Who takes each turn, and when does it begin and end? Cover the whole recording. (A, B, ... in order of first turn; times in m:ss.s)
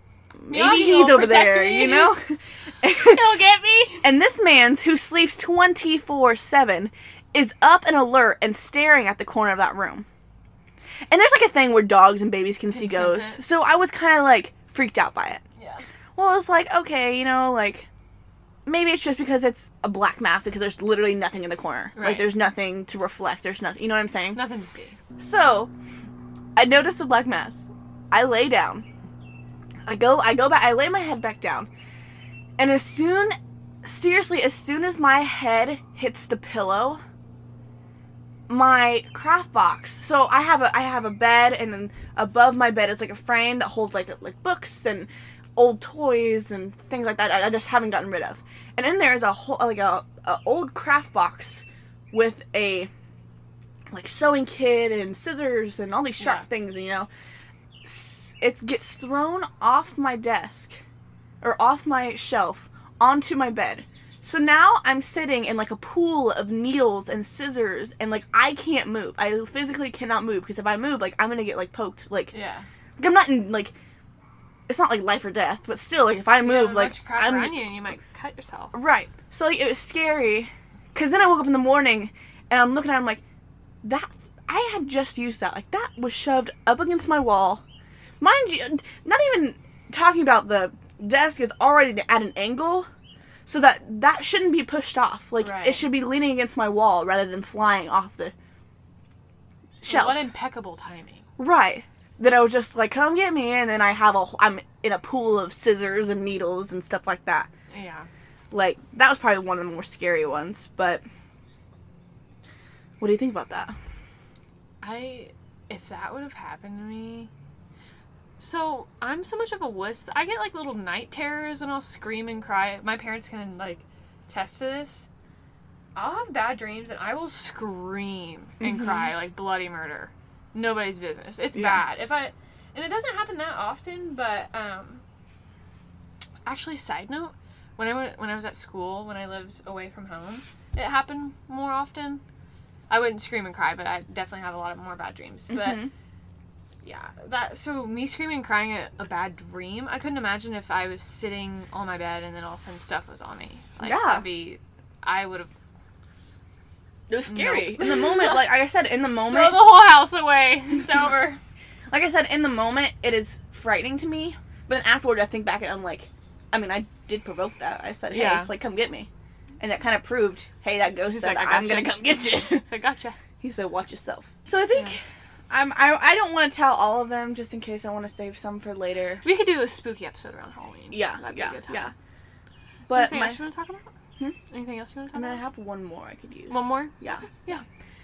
0:00.4-0:03.2 A
0:00.5-0:02.1 B
0:02.9-0:04.1 B
0:04.0-0:10.0 A
0:11.1-0:15.4 A
0:12.7-0:13.4 B
0:15.6-0:15.8 B
0:16.2-0:17.9 A
0:18.6-0:24.4 A
0:22.0-0:22.3 B
0:24.3-0:25.0 B
0:25.2-0:25.7 A
0:26.6-0:28.8 A
0:29.8-0:31.7 A
0:32.6-0:37.0 A
0:38.5-0:52.9 A
0:53.9-0:57.1 A
0:56.2-0:56.5 B
0:57.8-1:00.8 A
1:01.4-1:12.3 A
1:12.3-1:12.6 B
1:13.0-1:13.7 A
1:14.7-1:17.6 A
1:16.4-1:18.7 B
1:18.7-1:23.2 A
1:23.8-1:27.6 A
1:28.2-1:32.9 A
1:33.4-1:38.3 A
1:35.4-1:35.9 B
1:39.8-1:40.2 A
1:39.8-1:41.2 B
1:41.4-1:47.5 A
1:47.7-1:48.1 B
1:48.5-1:51.0 A
1:53.0-1:53.7 A
1:54.8-1:57.3 B
1:58.4-2:05.1 B
2:05.9-2:15.0 B
2:08.6-2:09.1 A
2:11.5-2:11.8 A
2:16.4-2:22.2 B
2:22.9-2:25.8 B
2:25.5-2:25.9 A
2:26.8-2:35.5 B
2:33.8-2:34.2 A
2:37.1-2:39.7 A
2:37.2-2:38.4 B
2:39.2-2:41.4 B
2:41.9-2:49.1 A
2:48.1-2:48.5 B
2:49.6-2:52.6 A
2:51.0-2:53.2 B
2:53.4-2:55.0 A
2:55.5-2:59.2 A
2:59.2-3:01.9 B
3:00.9-3:01.9 A
3:02.9-3:03.4 A
3:02.9-3:03.9 B
3:04.5-3:05.4 B
3:05.1-3:07.6 A
3:06.5-3:07.6 B